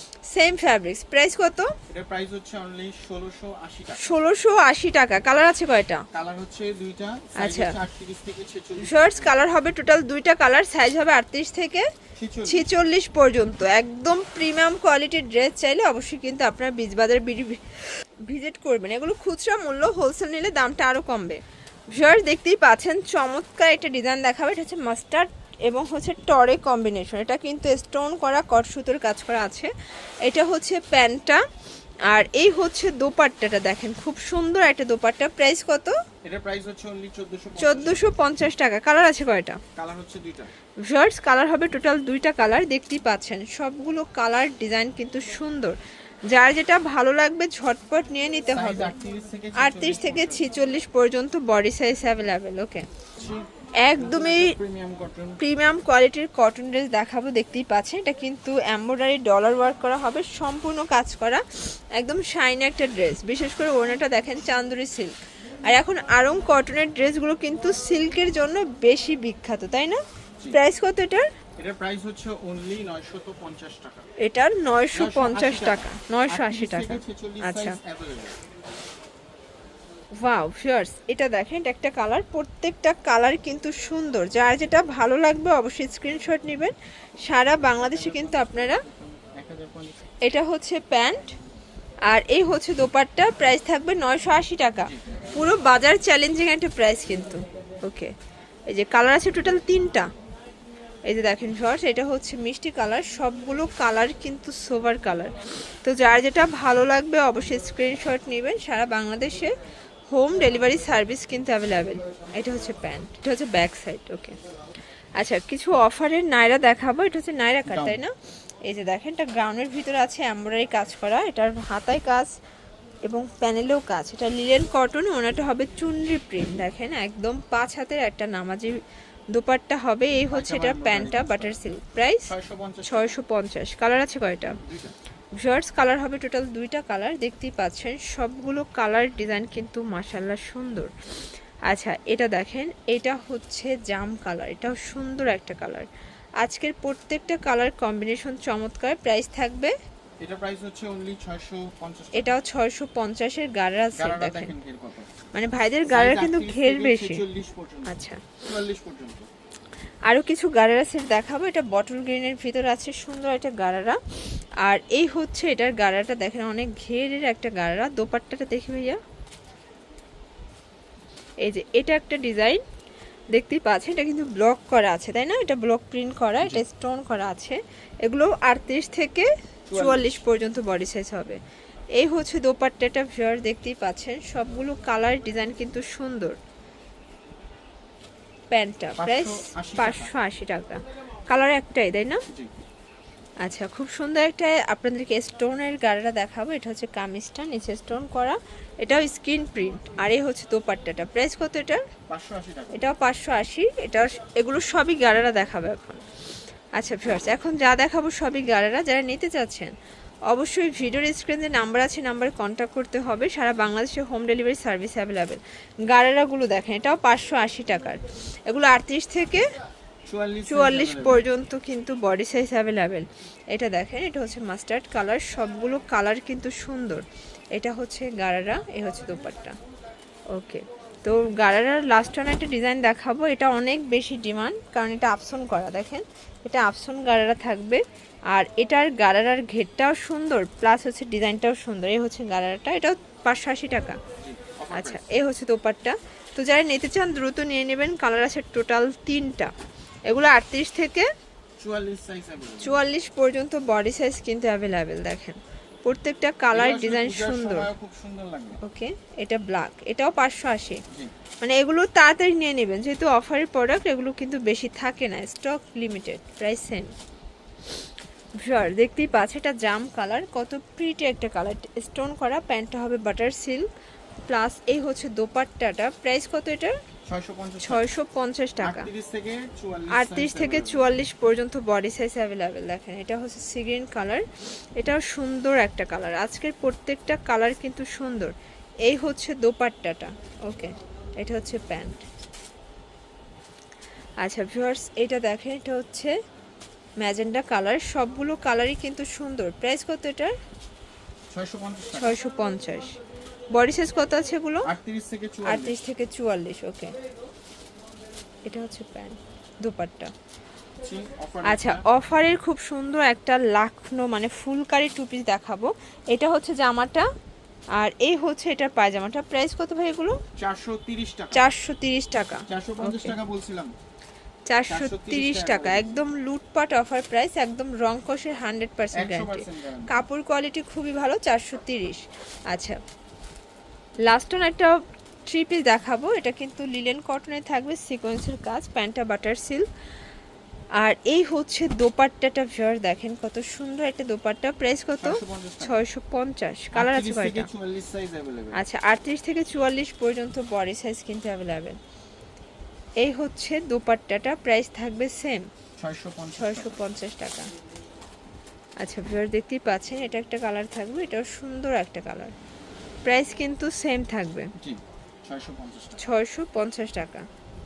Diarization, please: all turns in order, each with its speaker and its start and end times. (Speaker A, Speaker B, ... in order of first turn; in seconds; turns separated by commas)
Speaker A: 0.3-1.7, Speaker B: 1.9-4.2, Speaker A: 4.0-6.0, Speaker B: 6.1-9.4, Speaker A: 7.4-7.8, Speaker A: 8.8-11.9, Speaker B: 12.2-12.7, Speaker A: 12.4-29.7, Speaker A: 30.2-31.4, Speaker A: 32.1-36.0, Speaker B: 36.2-38.1, Speaker A: 37.6-39.6, Speaker B: 39.8-40.5, Speaker A: 40.8-45.8, Speaker A: 46.3-49.0, Speaker B: 48.5-50.6, Speaker A: 49.6-52.9, Speaker B: 53.2-55.4, Speaker A: 53.8-54.6, Speaker A: 55.4-65.1, Speaker A: 65.6-71.3, Speaker B: 71.6-74.1, Speaker A: 74.2-77.8, Speaker B: 74.9-78.4, Speaker A: 80.2-88.8, Speaker B: 87.7-90.0, Speaker A: 90.2-91.3, Speaker A: 92.1-98.1, Speaker A: 98.7-100.1, Speaker A: 101.0-109.5, Speaker A: 110.1-114.4, Speaker A: 115.2-118.1, Speaker B: 117.7-118.0, Speaker A: 118.7-122.3, Speaker A: 123.0-128.8, Speaker A: 129.3-132.3, Speaker B: 130.3-133.2, Speaker A: 132.8-134.6, Speaker B: 134.6-135.0, Speaker A: 135.4-140.9, Speaker A: 141.7-145.9, Speaker A: 146.4-149.8, Speaker B: 150.2-152.3, Speaker A: 152.1-154.5, Speaker B: 154.0-155.2, Speaker A: 155.3-157.2, Speaker B: 155.8-159.3, Speaker A: 157.8-158.2, Speaker A: 160.1-164.0, Speaker A: 164.6-169.0, Speaker A: 171.4-172.6, Speaker A: 173.3-181.4, Speaker B: 179.7-180.2, Speaker A: 182.0-186.4, Speaker A: 188.5-192.2, Speaker B: 189.0-190.2, Speaker B: 192.3-192.6, Speaker A: 193.4-201.8, Speaker B: 202.1-202.9, Speaker A: 202.7-206.0, Speaker A: 206.8-209.7, Speaker A: 210.3-219.4, Speaker B: 220.1-221.2, Speaker A: 220.5-229.6, Speaker A: 230.3-244.0, Speaker B: 244.2-245.1, Speaker A: 244.7-249.5, Speaker A: 250.1-251.1, Speaker B: 251.6-252.8, Speaker A: 252.6-257.7, Speaker B: 256.5-258.6, Speaker A: 258.6-260.8, Speaker A: 261.4-266.9, Speaker A: 268.4-273.7, Speaker A: 274.3-276.7, Speaker B: 277.1-277.9, Speaker A: 277.6-278.9, Speaker B: 278.6-280.9, Speaker A: 279.9-284.2, Speaker A: 284.8-288.3, Speaker A: 288.9-292.1, Speaker A: 294.2-296.1, Speaker A: 297.0-300.3, Speaker B: 301.3-302.2, Speaker A: 301.9-303.0, Speaker A: 303.5-304.7, Speaker B: 304.6-305.8, Speaker A: 305.4-306.9, Speaker A: 308.4-310.1, Speaker B: 310.8-311.9, Speaker A: 311.4-317.1, Speaker A: 317.8-320.2, Speaker B: 320.4-321.4, Speaker A: 321.3-323.2, Speaker B: 322.4-323.7, Speaker A: 324.5-332.8, Speaker B: 324.7-326.1, Speaker B: 328.9-330.0, Speaker A: 334.0-339.7, Speaker A: 340.8-347.5, Speaker B: 345.0-345.8, Speaker B: 346.7-348.6, Speaker A: 348.5-351.8, Speaker A: 353.0-355.5, Speaker B: 355.8-356.8, Speaker A: 356.4-357.5, Speaker A: 358.8-362.3, Speaker A: 363.1-364.5, Speaker B: 364.6-366.1, Speaker A: 366.0-367.2